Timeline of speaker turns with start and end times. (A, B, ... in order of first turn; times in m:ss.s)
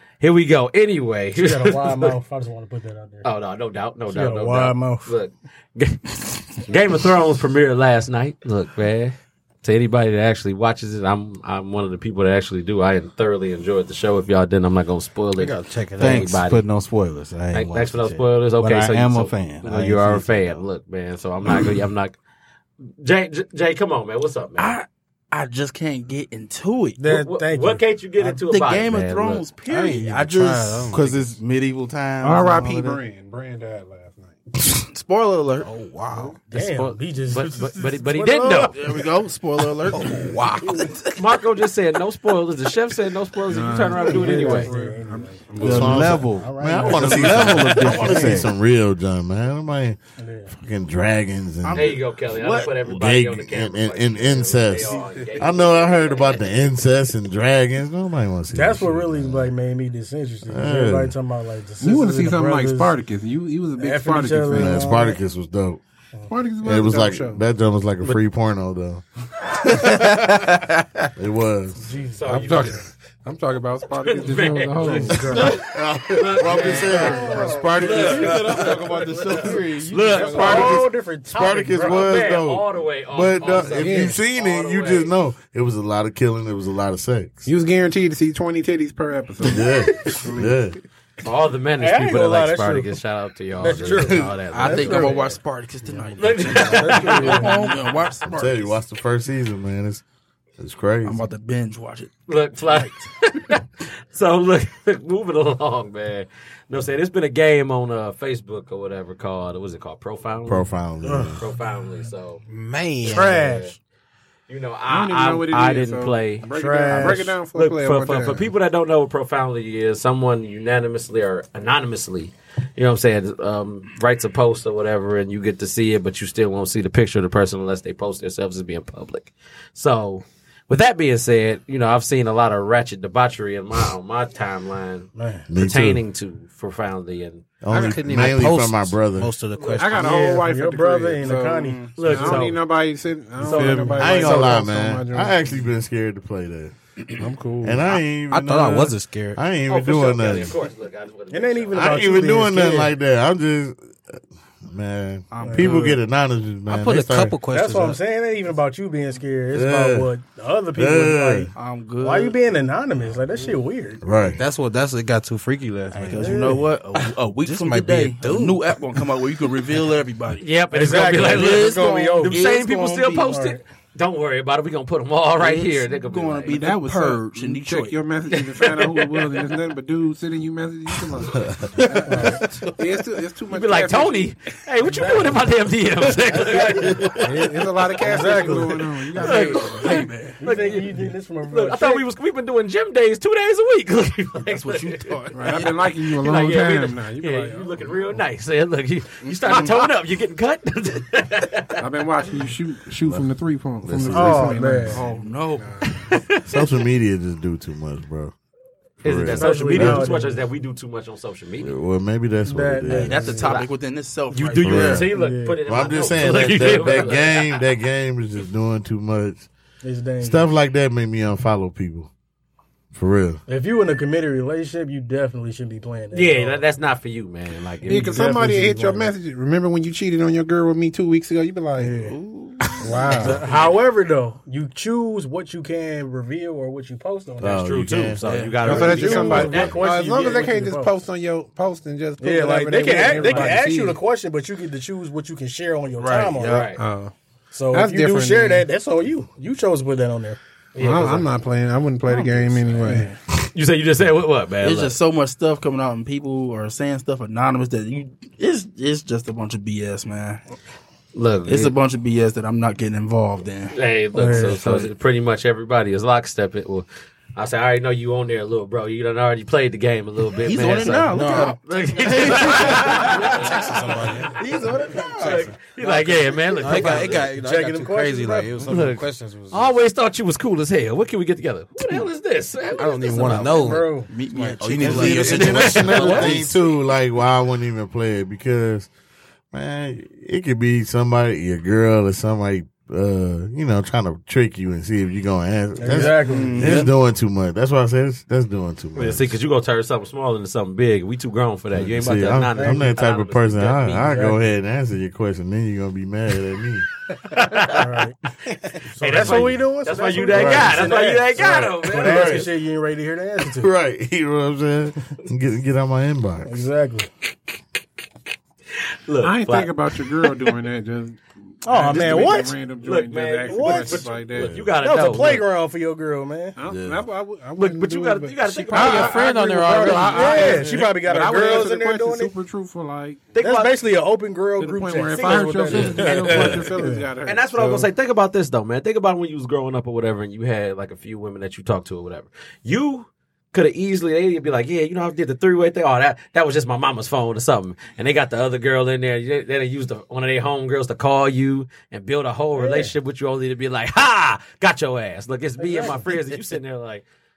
0:00.2-0:02.2 A
0:01.4-0:03.3 B
0:03.2-0:16.6 A
0:04.1-0:05.1 B
0:15.4-0:16.4 C
0:16.0-0:20.6 D
0:17.5-0:22.2 A
0:22.9-0:24.8 A
0:24.6-0:27.0 E
0:27.0-0:27.8 B
0:27.1-0:29.5 A
0:28.3-0:31.1 E
0:29.6-0:31.3 C
0:29.8-0:33.0 D
0:32.2-0:34.4 F
0:34.8-0:35.7 E
0:35.6-0:36.4 C
0:36.1-0:38.7 B
0:36.5-0:38.8 A
0:38.6-0:41.2 E
0:39.9-0:40.9 C
0:41.2-0:44.7 A
0:43.5-0:46.1 F
0:44.0-0:48.4 B
0:45.6-0:48.5 D
0:45.6-0:50.0 G
0:47.8-0:48.2 E
0:50.2-0:50.5 B
0:50.5-0:52.0 G
0:51.6-0:52.7 E
0:51.7-0:56.7 A
0:52.8-0:59.5 G
0:58.5-1:02.9 B
1:00.5-1:01.2 G
1:01.8-1:04.8 F
1:03.8-1:05.2 B
1:04.5-1:05.8 G
1:06.3-1:07.4 F
1:06.6-1:09.0 G
1:11.2-1:11.8 G
1:11.8-1:12.8 B
1:12.2-1:12.8 A
1:12.3-1:15.5 F
1:14.0-1:20.8 A
1:14.8-1:15.6 B
1:15.2-1:18.3 G
1:16.8-1:18.6 B
1:17.4-1:20.6 C
1:20.2-1:20.8 F
1:20.2-1:22.2 B
1:20.5-1:27.5 G
1:21.8-1:25.1 A
1:23.4-1:24.2 F
1:27.4-1:30.6 F
1:29.4-1:30.8 G
1:31.2-1:35.3 A
1:31.8-1:32.9 B
1:33.6-1:37.8 B
1:34.5-1:38.8 E
1:36.2-1:37.8 A
1:38.2-1:40.0 G
1:40.6-1:41.3 G
1:41.0-1:42.1 E
1:42.3-1:50.7 A
1:42.6-1:43.1 E
1:50.5-1:51.4 G
1:51.0-1:51.4 B
1:51.4-1:52.4 A
1:52.5-1:53.4 C
1:53.0-1:53.7 B
1:53.0-1:53.8 A
1:54.5-2:17.5 A
1:54.9-1:58.5 F
1:56.5-1:57.3 B
2:15.2-2:15.5 B
2:15.5-2:16.0 G
2:17.6-2:19.3 G
2:17.7-2:20.2 C
2:19.6-2:19.8 A
2:19.8-2:25.6 F
2:19.9-2:22.5 B
2:22.0-2:22.6 A
2:23.4-2:24.6 A
2:23.6-2:24.0 B
2:24.0-2:26.8 G
2:27.2-2:27.8 F
2:27.6-2:30.6 G
2:28.3-2:29.4 C
2:29.7-2:32.0 A
2:31.3-2:32.9 B
2:31.7-2:37.4 G
2:35.3-2:36.0 E
2:35.4-2:35.9 B
2:36.7-2:38.0 C
2:37.5-2:44.0 B
2:39.5-2:40.1 G
2:40.8-2:41.5 G
2:41.6-2:42.4 E
2:44.0-2:44.4 G
2:44.3-2:48.8 C
2:45.9-2:50.4 E
2:46.2-2:46.6 B
2:46.2-2:46.5 D
2:50.4-2:56.6 A
2:50.7-2:53.6 B
2:51.0-2:53.2 E
2:55.4-2:58.0 E
2:56.5-3:04.3 F
2:58.3-2:59.5 A
3:01.4-3:01.7 G
3:02.1-3:02.4 B
3:03.5-3:07.2 A
3:04.8-3:05.5 B
3:06.2-3:07.4 B
3:07.2-3:09.9 F
3:08.0-3:12.0 B
3:08.2-3:21.8 A
3:09.2-3:10.1 E
3:14.4-3:15.9 E
3:15.3-3:18.2 F
3:19.2-3:19.8 E
3:21.8-3:26.1 F
3:23.8-3:24.6 G
3:24.1-3:25.1 B
3:24.9-3:25.8 E
3:25.9-3:26.7 A
3:26.4-3:28.3 G
3:29.0-3:30.1 G
3:29.0-3:31.7 A
3:29.4-3:30.4 B
3:31.6-3:33.4 G
3:32.5-3:33.5 B
3:32.9-3:35.1 E
3:33.4-3:33.7 A
3:34.3-3:37.6 A
3:34.6-3:35.1 G
3:35.0-3:35.6 B
3:35.7-3:39.5 G
3:39.8-3:40.5 B
3:40.2-3:42.1 G
3:42.9-3:43.4 G
3:43.5-3:46.6 B
3:46.1-3:48.2 A
3:47.8-3:49.1 B
3:47.9-3:52.0 F
3:51.8-3:52.2 B
3:52.0-3:53.4 E
3:52.8-3:53.4 F
3:53.1-3:57.8 B
3:57.4-3:58.2 G
3:57.6-3:59.9 A
3:58.6-4:00.9 B
3:58.6-4:04.0 F
3:58.6-3:59.1 E
3:59.3-3:59.8 G
4:02.2-4:06.6 B
4:03.0-4:03.6 A
4:06.0-4:06.8 E
4:06.4-4:06.8 A
4:06.8-4:07.1 F
4:07.5-4:10.4 B
4:07.7-4:08.7 F
4:10.8-4:11.3 A
4:10.8-4:13.1 F
4:12.1-4:13.1 E
4:12.8-4:13.1 B
4:13.5-4:15.0 A
4:14.6-4:20.4 E
4:21.2-4:21.7 A
4:21.5-4:23.8 E
4:23.7-4:33.8 A
4:24.2-4:24.6 B
4:24.3-4:24.9 E
4:30.4-4:31.6 E
4:31.1-4:31.5 D
4:32.5-4:34.4 C
4:34.4-4:35.5 E
4:34.7-4:35.4 B
4:35.2-4:37.3 A
4:36.5-4:38.7 B
4:36.6-4:39.7 C
4:38.7-4:43.8 A
4:42.8-4:43.9 C
4:43.5-4:44.1 B
4:44.1-4:46.5 E
4:44.3-4:45.5 D
4:44.6-4:46.3 C
4:44.8-4:48.9 G
4:45.0-4:46.4 A
4:49.5-4:59.4 G
4:55.8-4:56.7 B
4:56.3-4:56.8 E
4:59.0-5:04.2 A
5:01.7-5:06.9 G
5:02.6-5:02.9 B
5:04.1-5:04.4 B
5:07.3-5:07.9 A
5:07.6-5:08.2 B
5:08.7-5:13.7 B
5:09.0-5:12.5 A
5:10.3-5:11.0 G
5:11.8-5:12.5 G
5:13.5-5:16.6 G
5:16.5-5:17.1 B
5:19.1-5:20.6 A
5:19.2-5:24.5 F
5:21.6-5:22.6 B
5:22.8-5:25.4 A
5:23.5-5:24.1 B
5:24.3-5:24.7 G
5:24.8-5:26.6 B
5:26.6-5:33.2 F
5:26.6-5:27.1 G
5:27.6-5:30.4 A
5:28.7-5:30.6 C
5:29.9-5:32.3 B
5:33.3-5:33.8 A
5:33.4-5:37.1 B
5:34.6-5:37.9 F
5:35.2-5:36.6 A
5:35.7-5:36.1 G
5:37.2-5:57.0 A
5:52.6-5:52.9 B
5:55.6-5:56.0 B